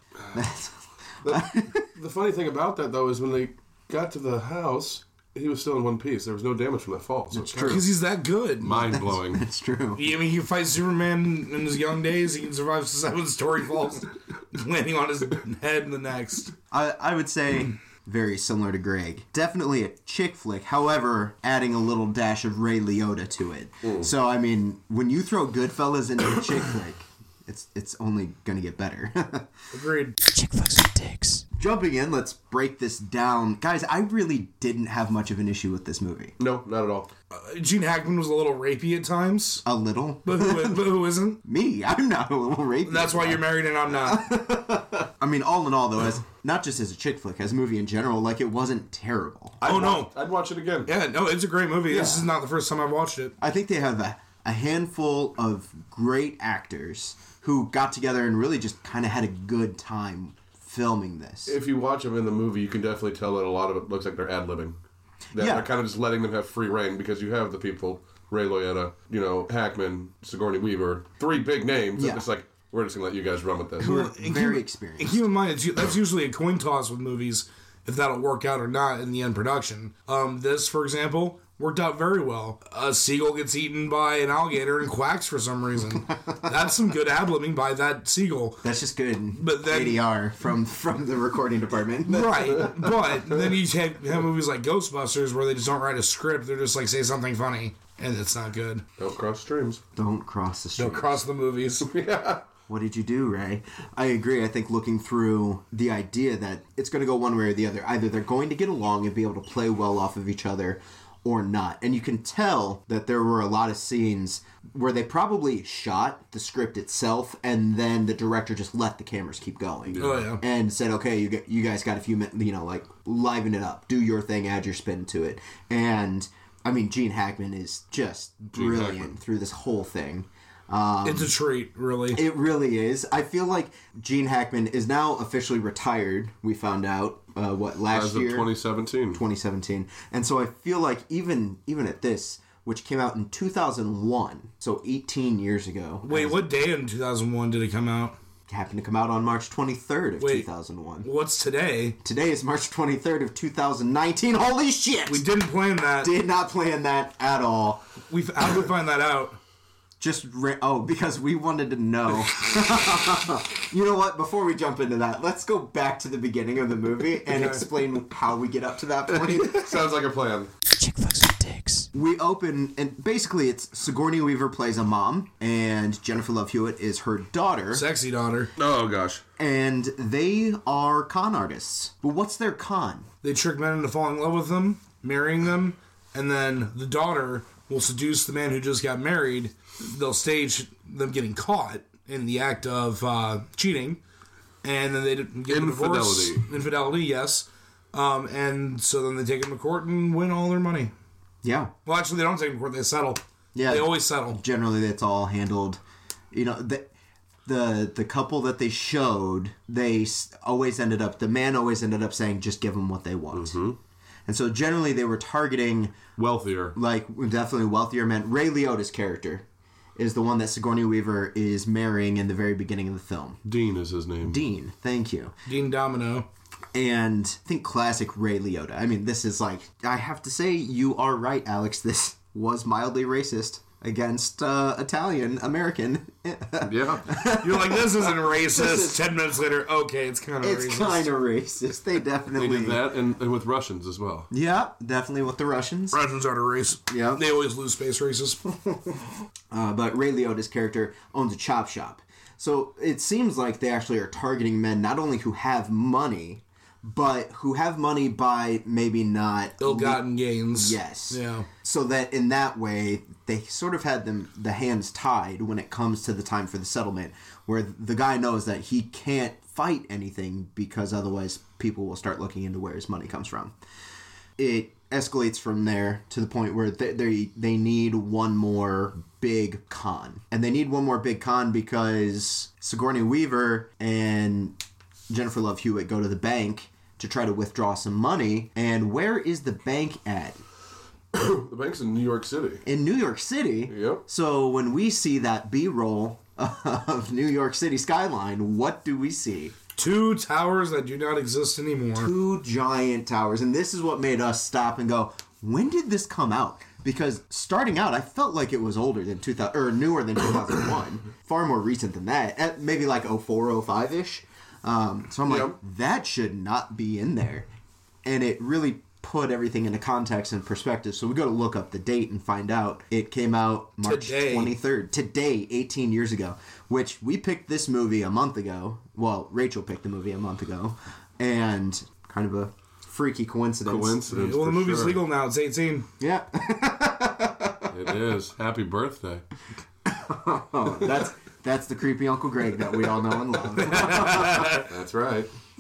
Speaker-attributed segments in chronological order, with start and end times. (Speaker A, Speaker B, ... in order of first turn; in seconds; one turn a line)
Speaker A: 0.3-1.9
Speaker B: 1.2-7.8
Speaker A: 7.3-7.8
Speaker C: 7.6-8.9
Speaker B: 8.6-9.4
Speaker A: 8.9-10.1
Speaker C: 10.0-16.5
Speaker A: 16.7-29.5
Speaker B: 23.8-24.1
Speaker C: 29.7-30.2
Speaker D: 30.2-31.4
Speaker A: 31.6-36.3
Speaker B: 36.4-37.1
Speaker C: 37.3-39.6
Speaker A: 39.6-40.8
Speaker C: 40.2-41.4
Speaker A: 41.4-49.6
Speaker C: 42.9-44.2
Speaker B: 49.6-50.9
Speaker C: 49.6-50.1
Speaker C: 50.9-53.4
Speaker A: 51.9-52.3
Speaker A: 53.4-61.6
Speaker B: 61.5-64.8
Speaker B: 65.3-73.9
Speaker A: 65.4-65.7
Speaker A: 72.0-72.2
Speaker A: 73.8-75.2
Speaker C: 73.8-88.6
Speaker A: 88.6-92.9
Speaker C: 89.3-90.0
Speaker C: 92.1-98.8
Speaker B: 99.0-99.8
Speaker A: 100.0-101.2
Speaker C: 100.8-101.9
Speaker B: 101.8-102.4
Speaker A: 102.7-131.3
Speaker B: 119.9-120.2
Speaker C: 120.0-120.4
Speaker B: 128.5-129.1
Speaker C: 131.1-132.2
Speaker A: 132.1-138.5
Speaker B: 137.9-139.2
Speaker A: 139.1-146.4
Speaker C: 146.0-148.2
Speaker A: 148.5-151.1
Speaker C: 150.2-150.5
Speaker C: 151.0-152.0
Speaker A: 152.0-155.2
Speaker C: 155.1-156.1
Speaker A: 156.0-157.9
Speaker C: 158.1-159.4
Speaker A: 160.0-169.7
Speaker C: 167.3-167.7
Speaker B: 169.1-170.5
Speaker D: 170.7-171.9
Speaker A: 171.9-177.9
Speaker C: 177.7-178.5
Speaker B: 178.6-179.2
Speaker A: 179.4-183.1
Speaker C: 183.2-194.0
Speaker C: 194.6-200.9
Speaker B: 195.5-196.4
Speaker A: 201.4-201.7
Speaker C: 201.9-204.4
Speaker A: 203.5-205.8
Speaker A: 206.3-206.9
Speaker A: 207.4-213.6
Speaker B: 213.3-213.8
Speaker A: 214.3-216.0
Speaker B: 216.2-216.8
Speaker A: 216.8-219.4
Speaker A: 220.0-223.4
Speaker B: 223.4-224.4
Speaker A: 224.2-225.3
Speaker C: 225.5-226.3
Speaker A: 226.7-239.0
Speaker B: 236.6-237.1
Speaker C: 237.3-241.1
Speaker A: 240.4-242.8
Speaker B: 242.3-244.3
Speaker A: 244.3-246.0
Speaker C: 245.9-248.4
Speaker A: 246.9-247.2
Speaker A: 248.5-249.0
Speaker A: 249.5-260.0
Speaker C: 259.6-261.5
Speaker A: 260.5-273.5
Speaker A: 274.4-284.6
Speaker A: 285.1-290.4
Speaker B: 291.1-292.6
Speaker A: 292.6-299.6
Speaker B: 293.7-294.0
Speaker C: 299.8-302.1
Speaker A: 302.0-317.5
Speaker B: 315.2-315.6
Speaker A: 318.1-334.0
Speaker C: 323.8-324.5
Speaker B: 333.6-335.0
Speaker C: 334.1-335.9
Speaker A: 336.0-337.9
Speaker B: 337.7-339.2
Speaker A: 339.9-344.6
Speaker C: 343.6-344.7
Speaker B: 343.8-345.3